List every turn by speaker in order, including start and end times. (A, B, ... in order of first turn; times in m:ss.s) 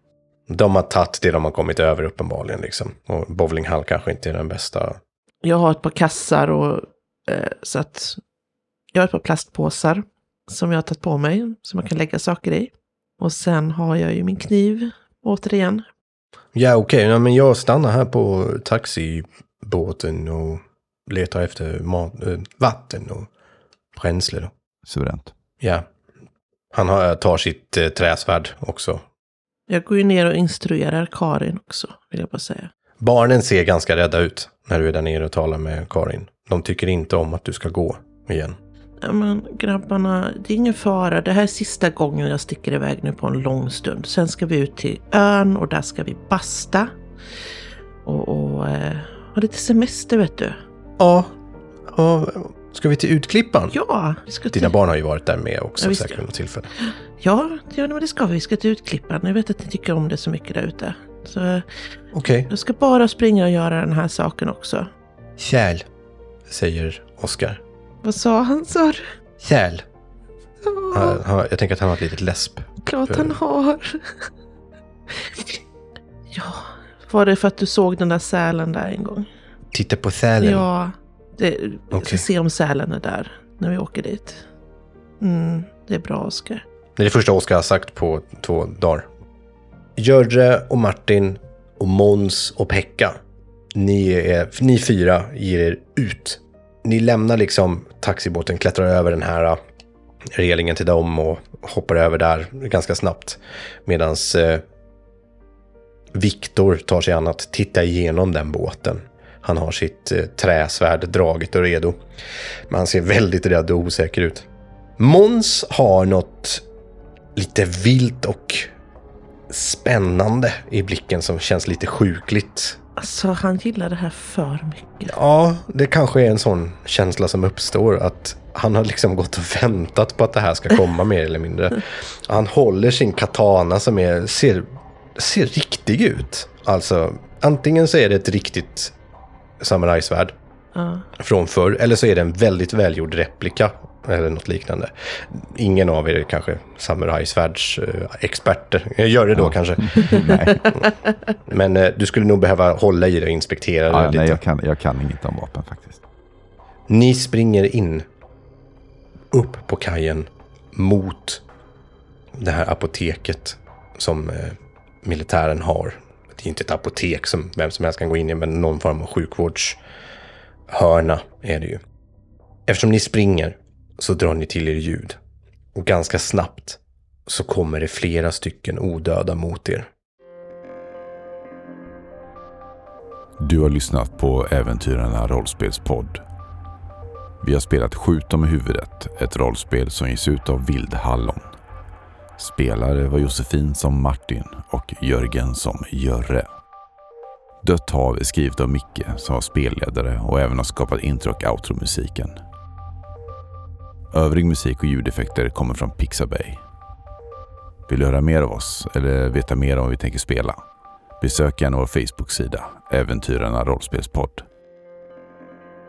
0:00.5-0:05.0 A
0:05.4-0:08.2 B
0:08.9-0:15.9 B
0:16.6-0:23.3 A
0:24.0-0:24.5 A
0:24.9-0:25.3 C
0:25.6-0:25.8 A
0:26.7-0:29.0 A
0:29.7-0:32.7 B
0:33.0-0:38.6 A
0:39.0-0:46.9 B
0:48.0-0:50.6 B
0:51.0-0:51.3 A
0:51.9-0:53.8 A
0:53.7-0:54.7 B
0:54.5-0:56.7 A
0:55.8-0:56.2 B
0:56.8-1:01.7 B
1:02.1-1:02.5 A
1:02.5-1:04.9 B
1:05.4-1:05.9 A
1:06.5-1:07.6 A
1:08.0-1:09.1 B
1:09.4-1:09.8 A
1:10.6-1:11.2 B
1:10.9-1:13.4 A
1:12.8-1:14.3 B
1:15.1-1:15.6 B
1:16.3-1:19.3 B
1:19.7-1:20.7 A
1:20.4-1:24.4 B
1:21.9-1:22.2 A
1:25.2-1:26.6 B
1:27.0-1:29.1 A
1:30.0-1:33.2 A
1:33.8-1:39.6 A
1:40.3-1:44.6 A
1:46.1-1:52.0 A
1:52.7-1:54.5 A
1:55.0-1:56.6 A
1:57.4-1:58.7 A
1:59.5-2:02.8 A
2:03.0-2:05.1 B
2:05.0-2:19.0 A
2:19.6-2:20.4 A
2:20.8-2:21.1 B
2:21.2-2:30.9 A
2:29.4-2:30.7 C
2:30.1-2:30.6 B
2:31.5-2:34.4 A
2:33.9-2:36.0 C
2:36.9-2:38.1 A
2:39.3-2:41.4 A
2:42.4-2:49.8 A
2:50.7-2:51.8 A
2:52.7-2:55.2 A
2:55.8-2:59.9 A
3:03.4-3:06.2 C
3:07.4-3:11.6 C
3:12.4-3:16.5 C
3:17.6-3:22.4 C
3:24.1-3:26.6 C
3:27.9-3:30.6 C
3:31.2-3:34.5 C